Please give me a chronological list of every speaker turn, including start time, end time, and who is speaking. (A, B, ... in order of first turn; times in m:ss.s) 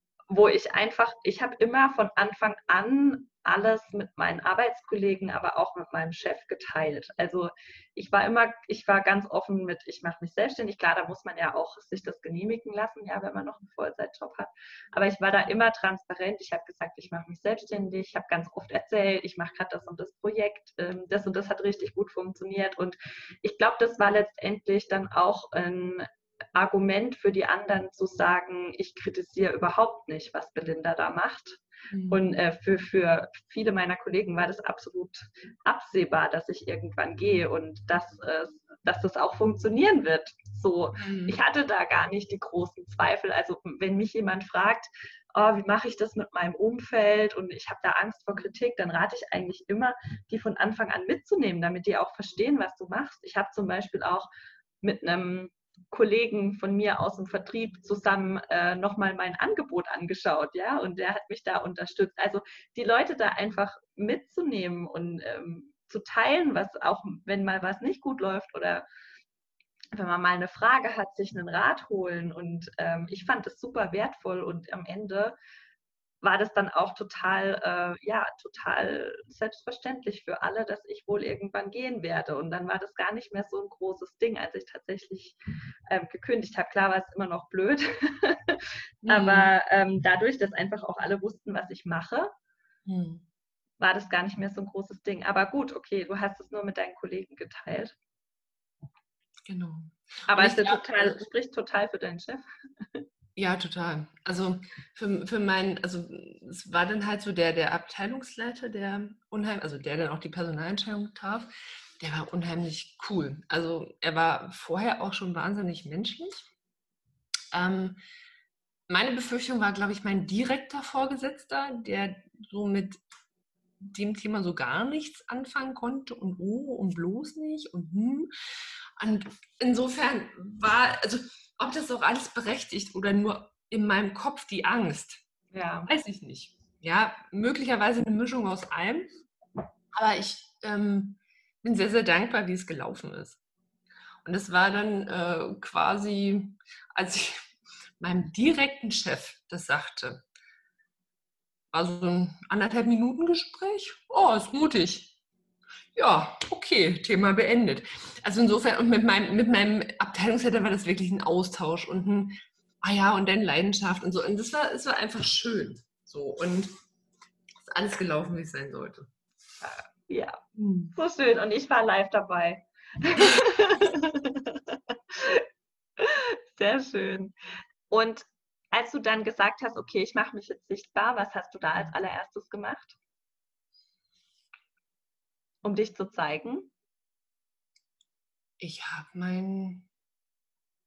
0:00.3-0:54.3 A
0:31.9-0:32.2 B
0:41.0-0:41.4 B
0:54.8-1:08.8 A
1:09.9-1:15.4 A
1:16.2-1:25.4 A
1:25.9-1:32.3 A
1:29.0-1:29.5 B
1:32.8-1:33.2 B
1:33.8-1:37.9 A
1:39.4-1:41.2 B
1:40.3-1:42.4 A
1:43.4-1:56.5 B
1:57.5-1:58.0 B
1:58.9-2:03.0 B
2:03.8-2:08.3 B
2:09.0-2:15.2 B
2:15.5-2:15.9 A
2:15.9-2:19.1 B
2:19.9-2:23.4 B
2:24.2-2:27.4 B
2:28.0-2:30.2 B
2:31.7-2:35.1 B
2:35.9-2:46.7 B
2:47.6-2:49.1 B
2:49.6-2:50.4 A
2:50.6-2:50.9 B
2:50.9-2:55.4 A
2:56.0-2:57.3 A
2:57.9-3:03.0 A
3:05.6-3:06.7 A
3:08.6-3:09.9 B